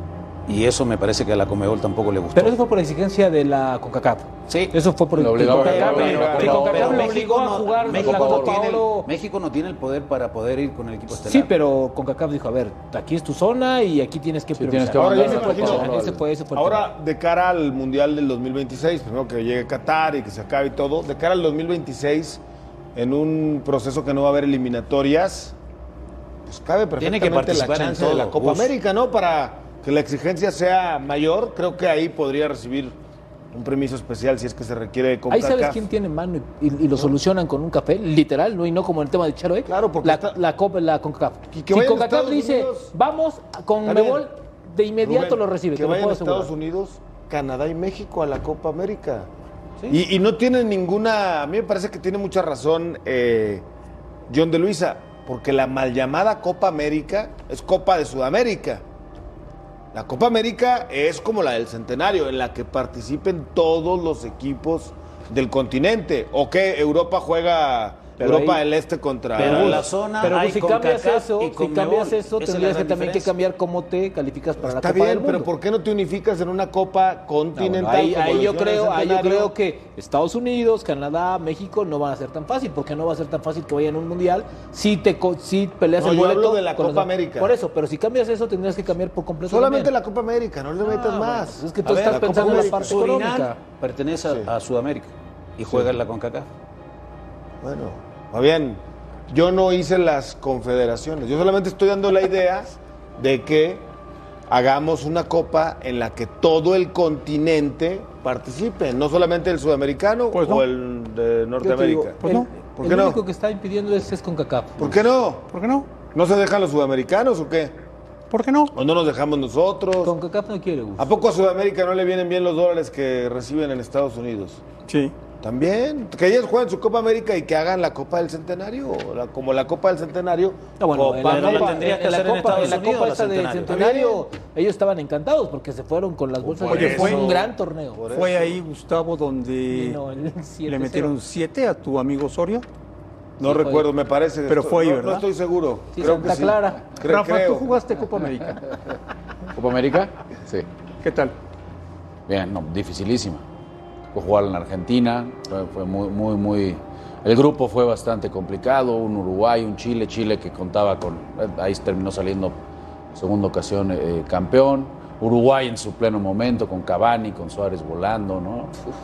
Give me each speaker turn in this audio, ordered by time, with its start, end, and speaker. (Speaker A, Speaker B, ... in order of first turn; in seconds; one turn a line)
Speaker A: 0.5-2.6
Speaker B: 2.3-9.1
Speaker A: 4.5-4.7
Speaker C: 5.2-7.2
Speaker A: 5.4-11.5
Speaker D: 5.8-7.0
Speaker C: 7.9-8.7
Speaker B: 11.2-16.9
Speaker C: 14.6-16.2
Speaker D: 14.9-15.9
Speaker D: 16.5-22.4
Speaker D: 22.9-25.5
Speaker D: 26.5-32.9
Speaker A: 27.0-28.7
Speaker D: 33.5-35.8
Speaker B: 35.3-46.5
Speaker D: 39.6-40.4
Speaker D: 41.5-42.9
Speaker D: 43.8-44.3
Speaker D: 45.0-49.3
Speaker D: 49.9-53.6
Speaker D: 54.3-58.8
Speaker D: 59.9-69.9
Speaker B: 68.2-68.6
Speaker A: 69.3-73.3
Speaker B: 69.4-75.5
Speaker D: 74.6-79.5
Speaker B: 77.5-89.9
Speaker D: 86.0-87.5
Speaker D: 89.5-93.0
Speaker B: 90.8-93.6
Speaker A: 91.8-96.5
Speaker D: 97.6-103.9
Speaker D: 104.5-112.2
Speaker E: 110.3-110.6
Speaker B: 111.6-114.9
Speaker E: 112.2-112.5
Speaker D: 112.7-113.2
Speaker D: 114.8-115.5
Speaker E: 115.5-115.9
Speaker D: 116.1-117.8
Speaker E: 118.3-118.7
Speaker D: 118.7-120.1
Speaker B: 120.0-121.1
Speaker D: 121.0-124.6
Speaker E: 124.9-125.1
Speaker D: 125.4-131.9
Speaker B: 130.8-138.0
Speaker A: 131.2-133.8
Speaker D: 133.7-134.2
Speaker D: 136.4-138.6
Speaker E: 136.7-137.3
Speaker E: 138.1-140.0
Speaker B: 139.7-141.1
Speaker E: 140.7-142.7
Speaker D: 143.4-147.7
Speaker B: 143.4-143.8
Speaker E: 144.5-145.2
Speaker B: 145.9-146.9
Speaker E: 147.0-148.6
Speaker C: 149.5-150.7
Speaker E: 151.0-151.3
Speaker C: 152.3-153.4
Speaker C: 154.1-162.5
Speaker C: 163.1-168.7